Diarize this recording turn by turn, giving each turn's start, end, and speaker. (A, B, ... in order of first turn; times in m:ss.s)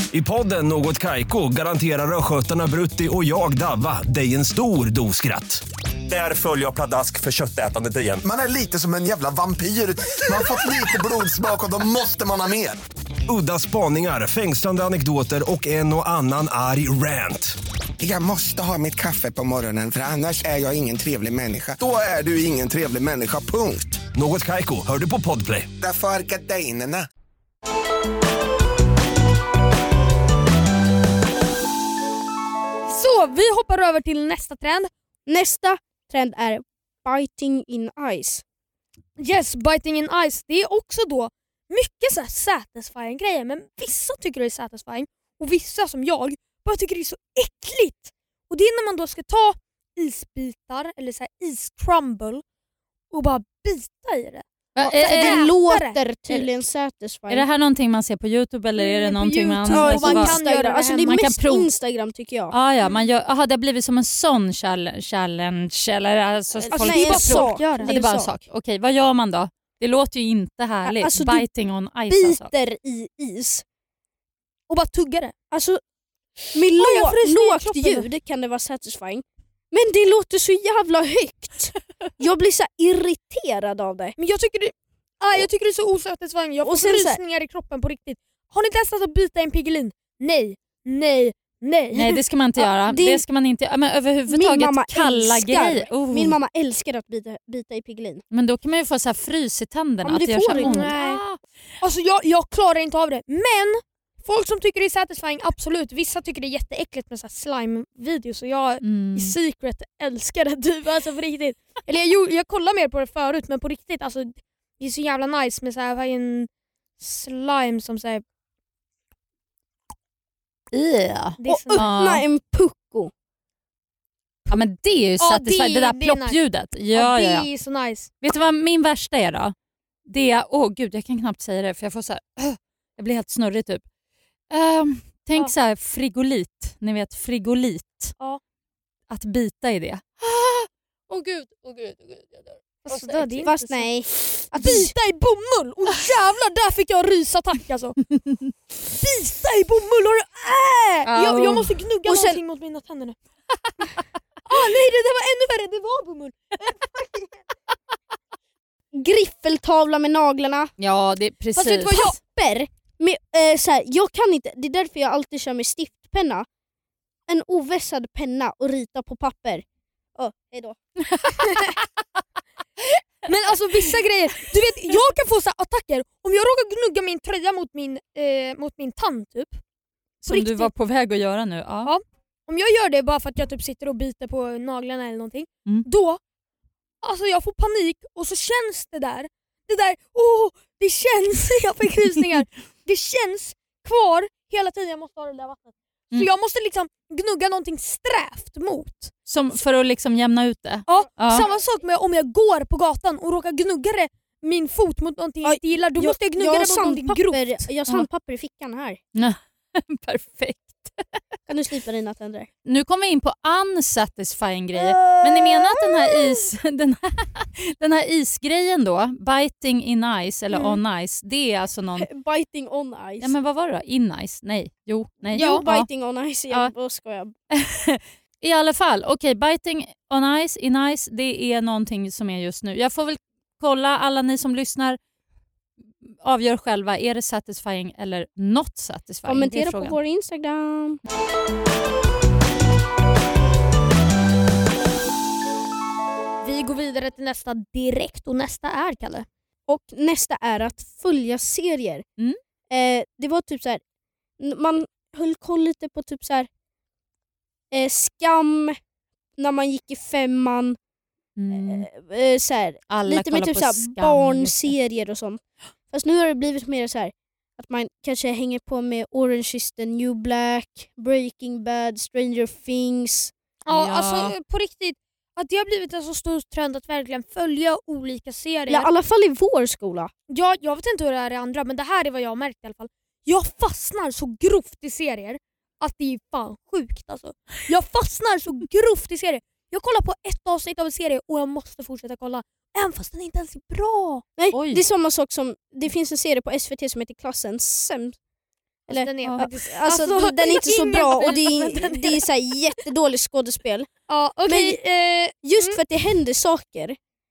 0:00.1-0:08.2 A
0:08.2-0:12.8 B
0:13.3-0:17.5 A
0:18.0-0:24.0 B
0:24.1-0:25.7 A
0:25.8-0:27.1 B
0:32.8-0:34.9 C
0:35.2-0:38.4 D
0:39.2-0:52.4 C
0:53.1-0:56.0 C
0:54.8-0:55.5 E
0:54.8-0:57.5 D
0:57.3-1:00.4 E
0:58.8-1:01.2 C
0:59.7-1:02.5 D
1:01.0-1:01.7 E
1:02.5-1:12.5 E
1:06.7-1:07.9 C
1:06.8-1:08.3 D
1:10.8-1:11.5 D
1:12.1-1:13.6 D
1:14.7-1:15.3 C
1:15.5-1:15.8 D
1:16.5-1:24.2 D
1:16.8-1:18.1 C
1:24.2-1:32.2 C
1:26.6-1:27.2 D
1:31.9-1:36.4 E
1:32.6-1:33.2 D
1:34.3-1:38.2 D
1:38.3-1:41.4 E
1:40.0-1:41.0 D
1:40.5-1:41.2 C
1:41.8-1:58.2 C
1:48.8-1:49.3 E
2:00.7-2:02.2 E
2:01.4-2:01.9 C
2:01.4-2:03.1 D
2:04.5-2:07.5 E
2:05.2-2:08.1 C
2:08.2-2:09.5 E
2:10.0-2:13.8 E
2:14.5-2:18.1 E
2:19.1-2:23.5 E
2:22.8-2:24.0 C
2:23.4-2:24.9 D
2:24.5-2:28.0 C
2:28.8-2:33.2 C
2:31.0-2:31.8 E
2:32.0-2:32.4 D
2:34.5-2:37.4 C
2:38.9-2:40.7 D
2:40.8-2:42.1 E
2:41.5-2:42.2 C
2:42.0-2:46.5 D
2:47.3-2:49.6 D
2:50.2-2:50.8 D
2:53.2-2:59.6 C
3:00.2-3:01.9 E
3:00.3-3:00.7 C
3:01.8-3:06.2 C
3:07.0-3:19.1 C
3:19.2-3:21.5 E
3:20.9-3:27.7 C
3:25.4-3:29.0 D
3:29.1-3:31.2 E
3:31.5-3:32.5 D
3:32.6-3:42.1 E
3:34.8-3:36.2 D
3:42.0-3:43.3 D
3:43.2-3:45.9 E
3:45.3-3:47.3 D
3:47.6-3:55.0 E
3:56.0-4:00.0 E
3:59.2-4:01.0 D
4:06.4-4:09.3 C
4:09.7-4:12.0 D
4:12.7-4:13.8 D
4:14.4-4:16.5 D
4:17.7-4:18.8 D
4:19.4-4:20.8 D
4:21.4-4:21.9 E
4:21.5-4:33.3 D
4:22.9-4:24.7 E
4:33.6-4:38.9 C
4:33.7-4:34.3 E
4:38.7-4:40.1 D
4:40.3-4:54.2 C
4:54.4-4:58.2 D
4:54.5-4:54.8 E
4:58.9-5:02.2 C
4:58.9-5:03.9 D
5:04.1-5:05.8 C
5:04.4-5:04.8 D
5:05.4-5:07.0 D